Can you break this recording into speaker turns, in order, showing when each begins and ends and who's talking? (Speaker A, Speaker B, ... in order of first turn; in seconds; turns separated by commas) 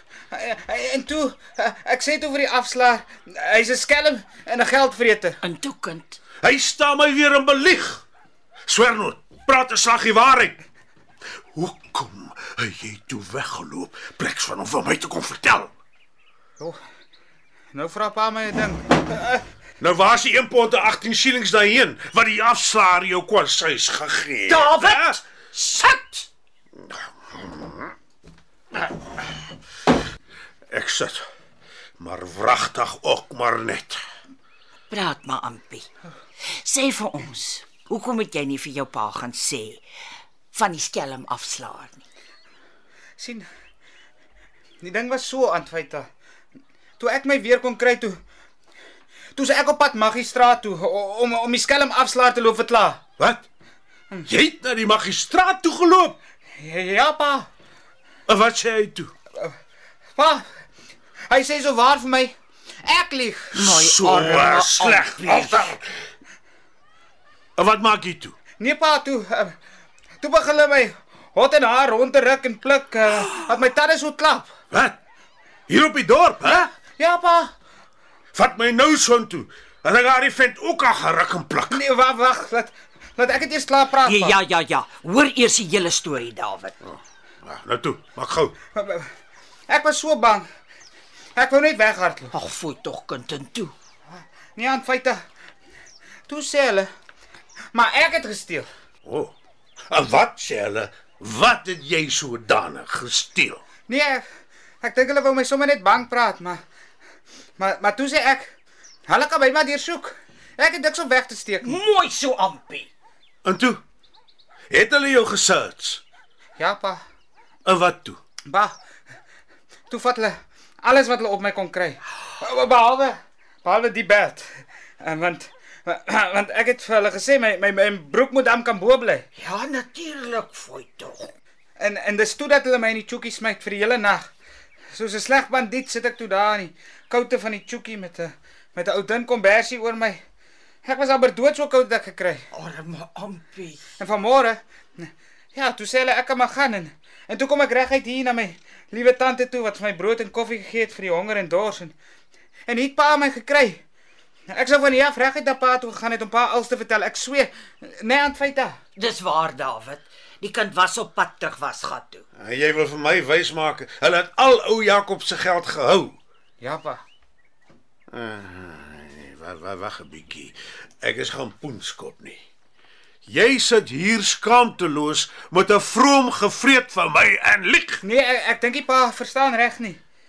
Speaker A: 0.3-5.4, Speaker B: 5.4-6.2, Speaker C: 6.4-8.0, Speaker C: 8.7-10.6, Speaker C: 11.5-15.7, Speaker A: 17.7-19.4, Speaker C: 19.8-25.2, Speaker B: 24.5-26.3, Speaker C: 26.9-27.9, Speaker C: 30.7-31.2, Speaker C: 32.0-34.0, Speaker B: 34.9-35.9, Speaker B: 36.6-39.8, Speaker B: 40.5-42.0, Speaker A: 43.2-43.4, Speaker A: 44.8-46.1, Speaker A: 47.0-48.1, Speaker A: 49.3-53.0, Speaker C: 53.2-53.4, Speaker C: 54.3-56.2, Speaker A: 56.6-57.5, Speaker C: 58.3-59.1, Speaker A: 60.1-60.4, Speaker A: 61.3-63.6, Speaker C: 63.5-65.8, Speaker B: 63.5-65.7, Speaker C: 67.6-68.3, Speaker A: 68.6-69.5, Speaker A: 70.2-74.5, Speaker C: 74.7-75.0, Speaker C: 75.7-76.7, Speaker A: 77.0-77.5, Speaker C: 78.3-81.8, Speaker A: 81.7-84.4, Speaker B: 84.0-86.7, Speaker C: 86.8-88.5, Speaker A: 88.7-89.1, Speaker A: 89.7-90.4, Speaker A: 91.3-92.3, Speaker B: 92.3-93.7, Speaker A: 94.2-95.2, Speaker A: 96.3-96.9, Speaker A: 97.7-98.7, Speaker C: 99.0-99.3, Speaker C: 99.9-103.6, Speaker A: 103.9-104.2, Speaker A: 104.8-106.6, Speaker A: 107.6-108.5, Speaker A: 109.1-111.8, Speaker B: 111.6-112.9, Speaker C: 113.4-113.8, Speaker C: 114.7-116.0, Speaker A: 116.6-117.0, Speaker C: 117.6-118.2, Speaker A: 118.5-118.8, Speaker A: 119.9-129.2, Speaker B: 129.4-131.3, Speaker A: 131.8-134.3, Speaker A: 134.9-140.2, Speaker A: 140.8-142.5, Speaker B: 142.5-143.8, Speaker A: 144.0-151.9, Speaker A: 152.7-153.8, Speaker A: 154.5-158.8, Speaker B: 158.9-162.2, Speaker C: 162.4-166.2, Speaker A: 166.6-167.0, Speaker C: 168.1-172.4, Speaker C: 173.2-178.0, Speaker A: 178.0-180.0